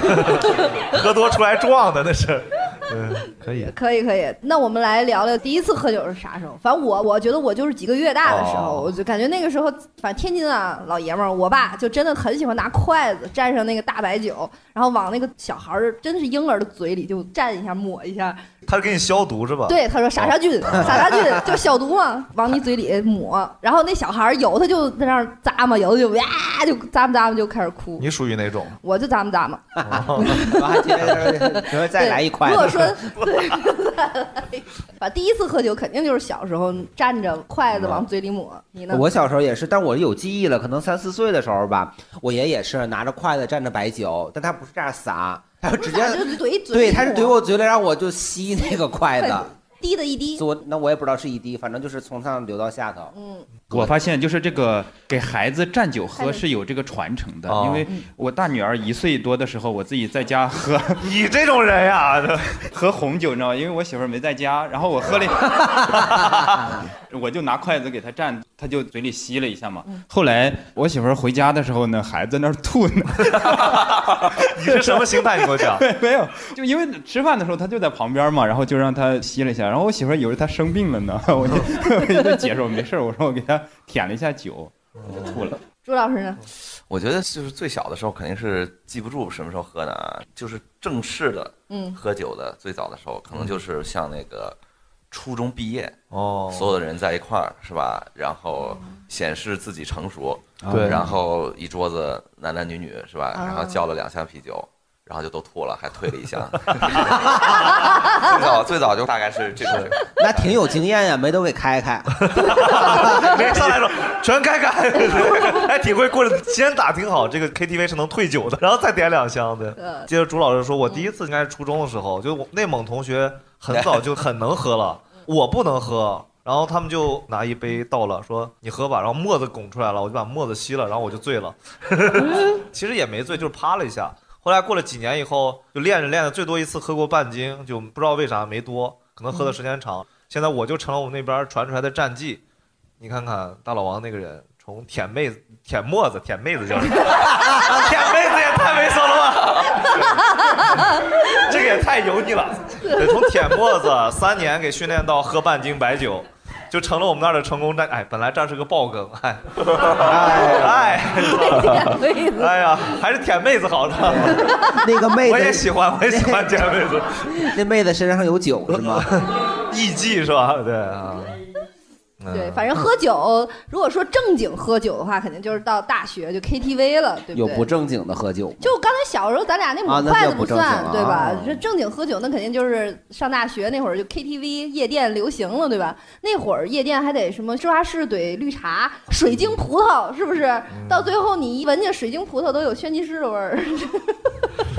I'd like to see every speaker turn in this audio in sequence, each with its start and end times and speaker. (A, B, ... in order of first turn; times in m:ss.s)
0:00.3-0:03.7 A
0:03.7-0:18.4 B
0:08.2-0:08.9 A
0:18.7-0:21.0 A
0:19.7-0:28.1 B
0:28.0-0:28.8 A
0:28.8-0:39.0 B
0:29.8-0:30.6 A
0:29.9-0:33.0 C
0:37.8-0:38.0 C
0:38.9-0:49.5 C
0:45.7-0:47.4 B
0:49.2-0:50.4 B
0:50.4-0:53.1 C
0:53.1-0:53.5 B
0:53.7-1:01.0 D
0:56.2-0:56.4 B
0:57.5-0:57.9 A
1:01.0-1:02.6 A
1:02.7-1:25.6 D
1:13.4-1:13.7 A
1:14.4-1:15.8 A
1:25.0-1:25.4 A
1:25.8-1:26.4 B
1:26.9-1:34.6 E
1:31.7-1:32.0 B
1:35.1-1:36.0 E
1:36.1-1:36.8 A
1:36.5-1:50.5 E
1:40.6-1:41.1 A
1:43.4-1:43.8 B
1:46.8-1:47.1 A
1:49.6-1:49.9 A
1:50.2-1:53.4 C
1:52.2-2:22.4 A
1:59.8-2:00.1 B
2:03.7-2:04.1 E
2:23.0-2:44.5 A
2:40.0-2:41.0 C
2:41.2-2:42.6 B
2:44.1-2:46.7 C
2:44.3-2:44.8 B
2:45.2-2:47.5 A
2:47.4-2:49.1 C
2:48.7-2:51.4 A
2:52.2-2:52.7 A
2:52.3-2:57.7 B
2:57.3-2:58.7 C
2:58.6-3:14.1 B
2:59.9-3:01.6 C
3:10.7-3:11.1 A